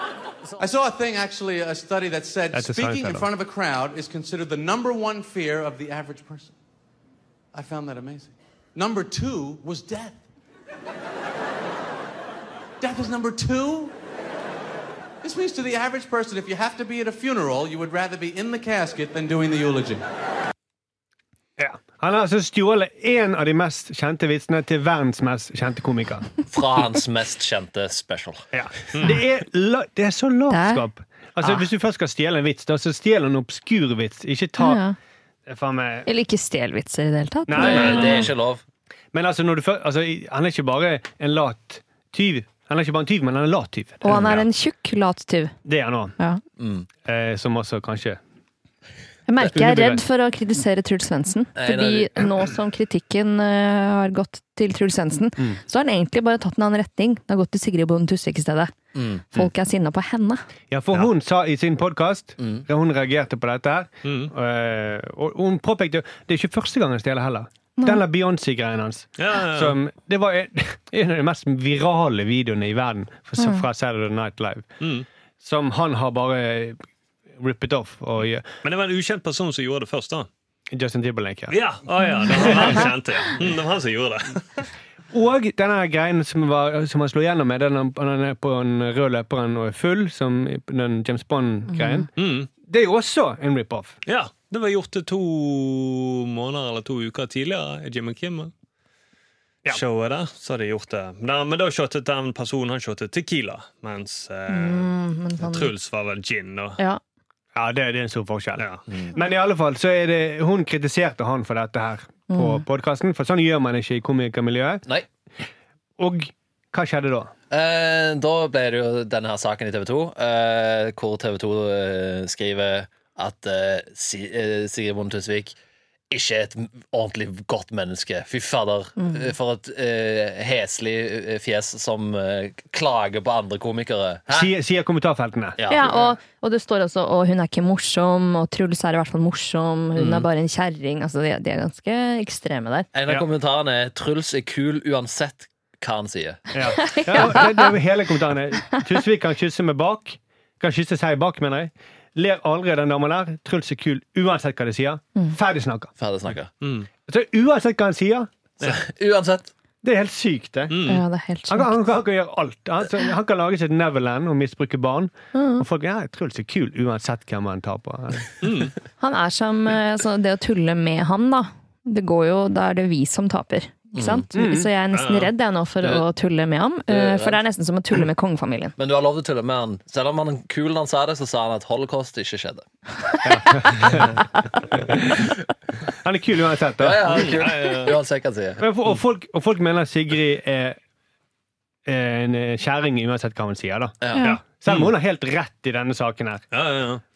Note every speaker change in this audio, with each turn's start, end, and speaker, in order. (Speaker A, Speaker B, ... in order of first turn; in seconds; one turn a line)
Speaker A: 0.6-6.5
Speaker B: 2.5-3.3
Speaker A: 7.5-10.2
Speaker A: 12.8-13.9
Speaker A: 15.2-20.1
Speaker B: 21.6-26.3
Speaker C: 26.5-28.4
Speaker B: 28.5-34.8
Speaker D: 28.9-29.2
Speaker E: 30.5-30.9
Speaker E: 34.6-35.0
Speaker B: 35.5-36.1
Speaker E: 36.1-38.3
Speaker B: 37.5-38.3
Speaker C: 37.6-38.6
Speaker B: 39.1-44.2
Speaker E: 44.0-45.5
Speaker C: 44.1-44.4
Speaker B: 45.6-46.2
Speaker C: 46.6-46.9
Speaker B: 47.1-48.2
Speaker E: 49.3-60.5
Speaker B: 49.5-50.0
Speaker C: 51.6-52.3
Speaker C: 59.0-59.2
Speaker B: 60.7-74.7
Speaker C: 62.4-62.6
Speaker D: 64.0-64.3
Speaker D: 69.2-69.8
Speaker E: 73.4-73.7
Speaker D: 74.8-75.1
Speaker B: 75.4-76.8
Speaker B: 77.4-78.5
Speaker D: 78.6-80.3
Speaker B: 80.7-81.6
Speaker D: 81.5-84.7
Speaker E: 82.0-82.9
Speaker B: 82.3-82.9
Speaker B: 85.1-92.1
Speaker E: 91.7-92.0
Speaker D: 92.2-92.5
Speaker B: 92.6-94.0
Speaker D: 94.1-98.5
Speaker D: 99.7-106.8
Speaker E: 104.5-105.7
Speaker B: 107.5-114.8
Speaker D: 108.6-108.8
Speaker E: 112.3-112.6
Speaker B: 116.0-117.3
Speaker C: 117.5-125.6
Speaker C: 126.1-134.5
Speaker E: 129.0-129.3
Speaker B: 134.3-135.6
Speaker C: 135.6-136.1
Speaker E: 135.7-142.9
Speaker C: 140.0-140.3
Speaker C: 142.9-146.5
Speaker B: 146.5-155.9
Speaker E: 146.8-147.7
Speaker C: 156.0-156.5
Speaker D: 156.6-156.9
Speaker B: 157.1-158.3
Speaker C: 158.6-159.5
Speaker B: 159.8-160.8
Speaker D: 160.7-161.0
Speaker E: 160.8-161.8
Speaker B: 161.5-168.3
Speaker E: 165.3-165.6
Speaker D: 168.4-168.8
Speaker E: 169.0-178.7
Speaker C: 173.9-174.2
Speaker B: 174.3-174.7
Speaker D: 174.9-175.3
Speaker C: 176.9-177.4
Speaker C: 178.8-182.7
Speaker E: 183.1-183.8
Speaker B: 183.2-184.1
Speaker B: 184.8-185.3
Speaker B: 186.0-187.4
Speaker C: 186.8-188.7
Speaker D: 187.1-188.0
Speaker B: 188.6-190.8
Speaker B: 191.9-196.4
Speaker C: 194.0-194.3
Speaker E: 194.1-194.4
Speaker D: 194.2-194.9
Speaker D: 196.5-197.0